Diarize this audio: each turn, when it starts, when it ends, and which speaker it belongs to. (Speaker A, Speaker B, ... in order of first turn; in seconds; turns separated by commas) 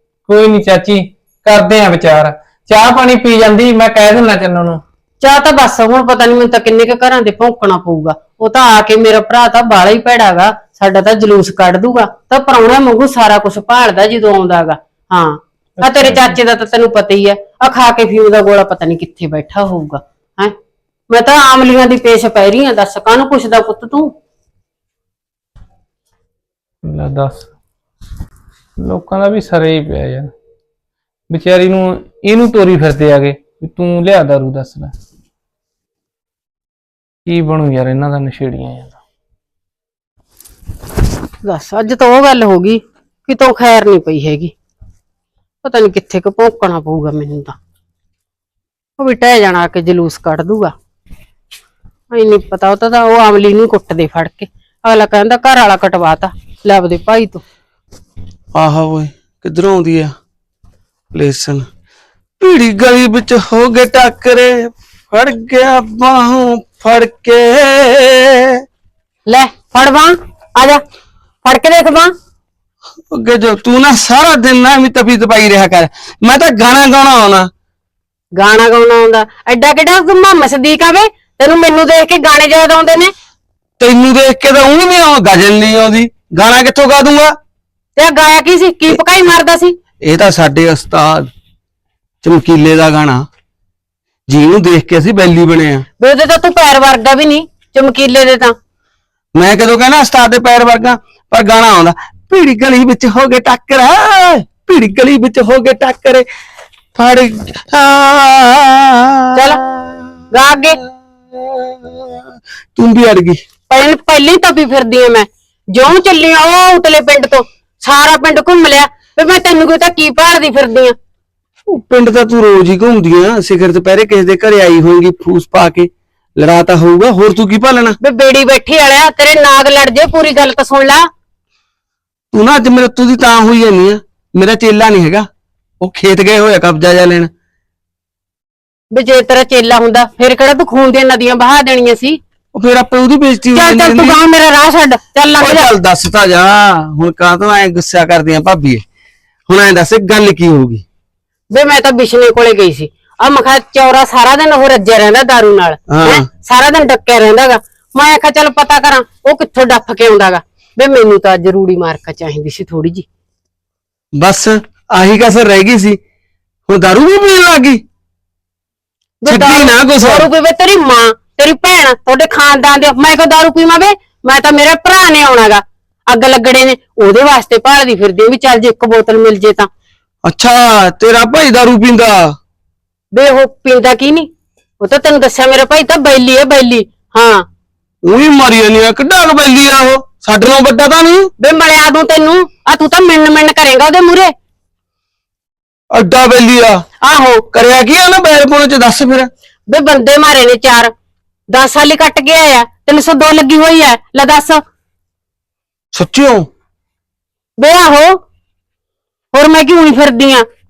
Speaker A: 0.3-4.8, Speaker B: 5.2-20.5, Speaker B: 21.1-24.1, Speaker A: 26.9-27.4, Speaker A: 28.8-30.3, Speaker A: 31.3-34.9, Speaker A: 37.2-38.9, Speaker B: 41.4-44.5, Speaker B: 45.6-47.5, Speaker B: 49.0-50.7, Speaker B: 52.1-57.4, Speaker C: 58.5-60.1, Speaker C: 61.1-61.6, Speaker C: 62.4-68.3, Speaker B: 69.3-70.8, Speaker B: 71.4-72.1, Speaker C: 73.1-77.5, Speaker B: 78.4-83.1, Speaker C: 83.8-87.3, Speaker B: 88.0-89.8, Speaker C: 90.0-91.3, Speaker C: 92.2-93.2, Speaker C: 94.3-95.9, Speaker B: 96.0-98.5, Speaker C: 99.3-106.2, Speaker C: 106.9-110.2, Speaker B: 109.3-109.6, Speaker B: 110.3-110.8, Speaker C: 111.3-112.2, Speaker C: 112.8-113.4, Speaker B: 113.7-120.9, Speaker C: 121.7-128.0, Speaker B: 128.0-131.1, Speaker C: 132.3-135.3, Speaker C: 135.8-137.3, Speaker B: 138.9-142.2, Speaker C: 142.5-144.2, Speaker B: 143.5-145.7, Speaker C: 145.4-148.8, Speaker C: 149.5-150.8, Speaker B: 151.5-163.1, Speaker C: 155.9-156.2, Speaker C: 164.2-166.0, Speaker C: 166.7-167.8, Speaker B: 169.2-179.7, Speaker C: 169.3-170.3, Speaker C: 180.2-182.3, Speaker B: 183.1-184.3, Speaker B: 184.8-187.4, Speaker C: 188.0-191.3, Speaker B: 191.4-194.3, Speaker C: 195.9-196.8, Speaker B: 197.0-197.4, Speaker C: 197.5-199.3, Speaker B: 199.7-200.9, Speaker B: 201.5-204.6, Speaker C: 205.9-206.5, Speaker B: 207.6-208.2, Speaker B: 209.3-210.4